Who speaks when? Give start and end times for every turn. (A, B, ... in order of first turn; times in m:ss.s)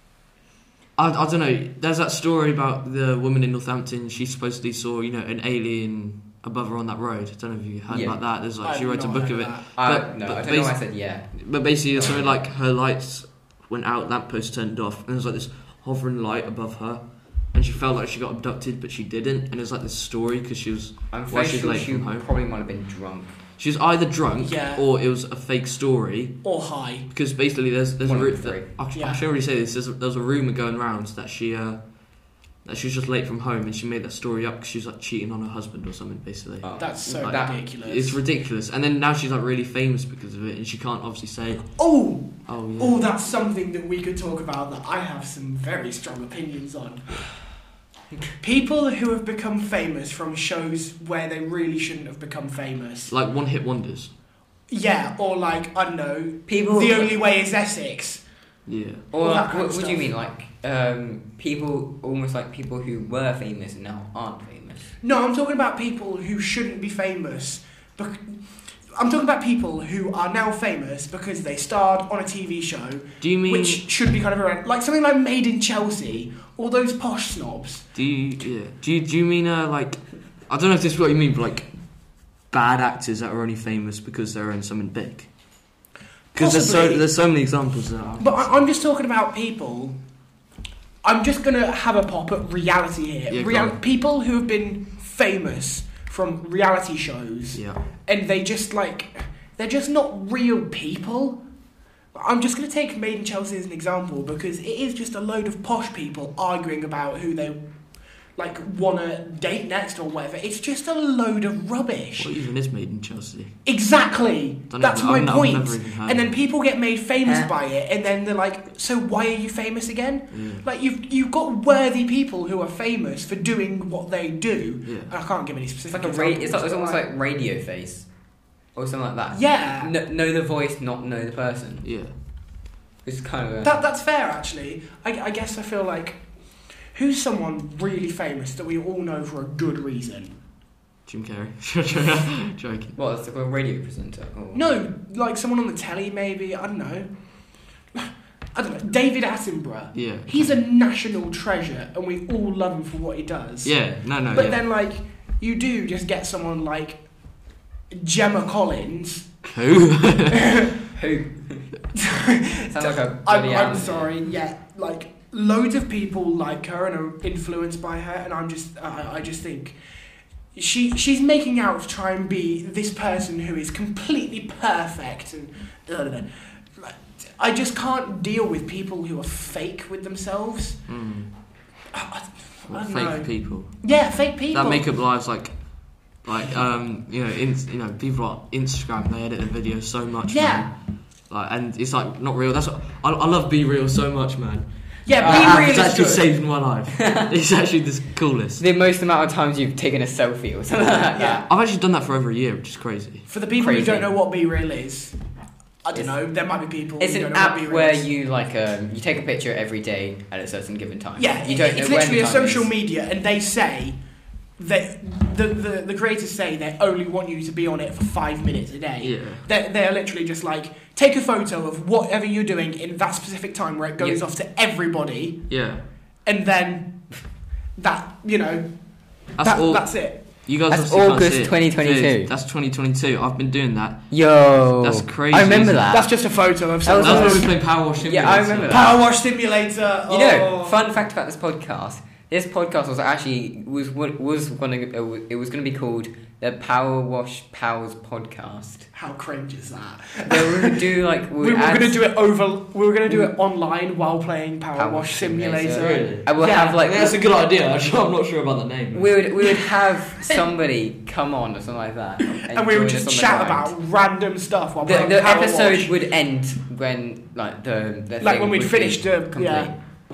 0:01.0-0:22.2 A
0:07.9-0:08.2 B
0:08.6-0:09.7 C
0:09.7-0:11.4 B
0:21.1-0:23.4 B
0:23.6-0:26.4 A
0:24.4-0:24.8 C
0:26.4-0:27.1 C
0:27.1-0:41.8 A
0:28.0-0:28.7 B
0:28.9-0:29.2 C
0:36.6-0:37.6 B
0:36.8-0:38.2 C
0:41.8-0:47.2 C
0:42.4-0:43.0 A
0:48.4-0:53.1 C
0:53.1-0:54.1 A
0:54.7-0:58.2 C
0:56.5-0:57.2 B
0:58.6-0:59.1 A
0:59.1-1:04.9 B
0:59.2-1:00.1 C
1:05.0-1:17.9 C
1:13.2-1:13.8 A
1:17.9-1:21.9 A
1:22.4-1:25.3 A
1:26.3-1:27.0 C
1:26.3-1:28.7 A
1:28.2-1:30.0 C
1:31.0-1:41.4 C
1:33.3-1:33.8 A
1:37.5-1:37.8 A
1:42.1-1:47.6 C
1:48.4-1:52.3 C
1:52.2-1:53.6 A
1:53.6-2:07.0 C
1:54.7-1:56.4 A
1:57.2-1:57.5 B
2:00.3-2:00.6 A
2:04.8-2:05.1 A
2:05.9-2:08.1 B
2:08.7-2:11.9 B
2:09.3-2:09.9 C
2:11.8-2:12.2 A
2:13.0-2:13.8 B
2:13.6-2:16.2 C
2:16.9-2:20.4 C
2:21.0-2:23.0 A
2:23.0-2:24.6 B
2:24.5-2:27.1 C
2:27.9-2:37.0 C
2:29.9-2:30.5 A
2:33.6-2:34.6 A
2:37.9-2:39.4 C
2:39.5-2:40.5 A
2:40.3-2:40.7 C
2:40.9-2:41.7 B
2:42.2-2:49.8 C
2:42.6-2:44.1 B
2:50.5-3:00.8 C
3:00.9-3:01.3 A
3:01.9-3:04.8 C
3:02.7-3:03.9 A
3:04.5-3:10.8 A
3:10.3-3:10.7 C
3:11.3-3:18.6 A
3:15.0-3:16.3 C
3:15.2-3:15.7 B
3:17.0-3:17.3 B
3:18.6-3:21.4 B
3:21.1-3:21.4 C
3:21.5-3:23.2 A
3:23.3-3:25.2 C
3:23.6-3:24.1 B
3:25.8-3:28.0 C
3:27.0-3:32.7 B
3:31.2-3:34.0 C
3:34.6-3:45.6 C
3:39.0-3:39.5 A
3:45.5-3:45.8 A
3:46.2-3:47.1 C
3:47.8-3:48.7 C
3:49.4-3:55.9 A
3:49.4-3:50.2 C
3:50.7-3:52.3 B
3:54.1-3:56.1 B
3:55.9-3:57.5 C
3:56.8-3:59.0 B
3:57.0-3:59.0 A
3:58.7-4:00.8 C
4:00.1-4:08.9 B
4:08.9-4:10.8 C
4:10.2-4:12.0 B
4:11.4-4:16.9 C
4:14.7-4:17.2 B
4:15.7-4:19.1 A
4:18.9-4:23.7 B
4:19.4-4:20.4 C
4:22.3-4:25.9 C
4:24.8-4:29.7 B
4:28.2-4:29.7 C